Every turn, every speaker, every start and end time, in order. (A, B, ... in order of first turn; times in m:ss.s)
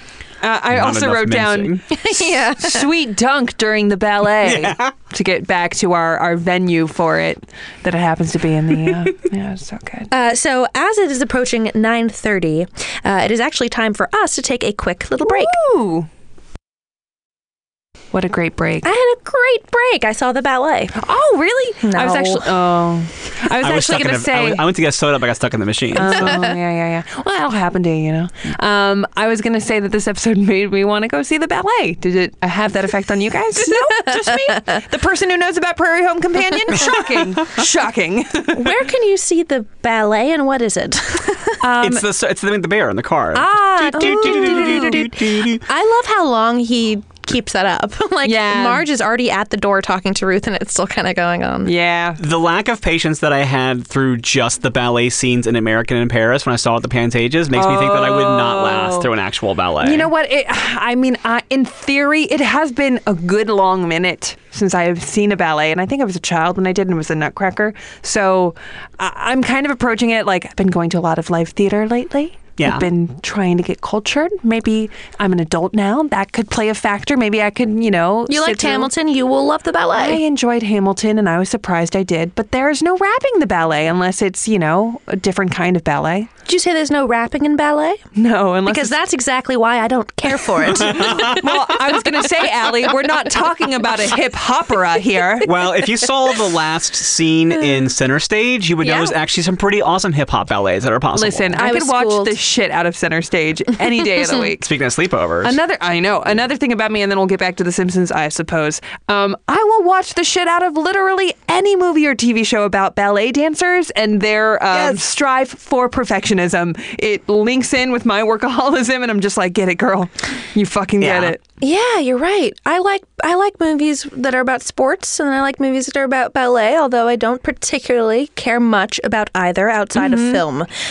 0:00.4-0:01.8 A
0:00.7-0:01.8 B
0:01.9-0:02.8 C
0:02.6-0:10.1 A
0:04.4-0:04.9 B
0:10.1-0:15.6 C
0:15.2-0:16.1 A
0:18.1-0:18.9 A
0:18.8-0:21.0 C
0:21.0-0:24.7 A
0:21.8-0:22.5 C
0:23.6-0:26.4 B
0:26.0-0:38.8 A
0:33.7-0:34.1 C
0:36.8-0:37.4 B
0:38.5-0:41.6 C
0:41.6-0:42.0 A
0:41.8-0:45.6 B
0:43.3-0:51.7 C
0:44.0-0:45.0 A
0:48.2-0:48.8 A
0:51.6-0:52.2 A
0:52.2-1:00.1 B
0:57.5-0:59.1 A
0:59.8-1:18.9 A
1:12.6-1:12.9 B
1:18.3-1:20.2 C
1:20.0-1:26.3 A
1:26.5-1:28.0 C
1:28.2-1:29.0 A
1:28.7-1:31.5 C
1:30.7-1:31.5 B
1:30.8-1:35.5 A
1:35.4-1:41.6 B
1:38.8-1:39.1 C
1:41.2-1:44.7 A
1:41.6-1:42.4 C
1:44.6-1:45.6 B
1:45.4-2:01.6 A
1:54.7-1:55.0 B
2:01.0-2:01.4 B
2:01.6-2:10.7 C
2:10.0-2:10.4 A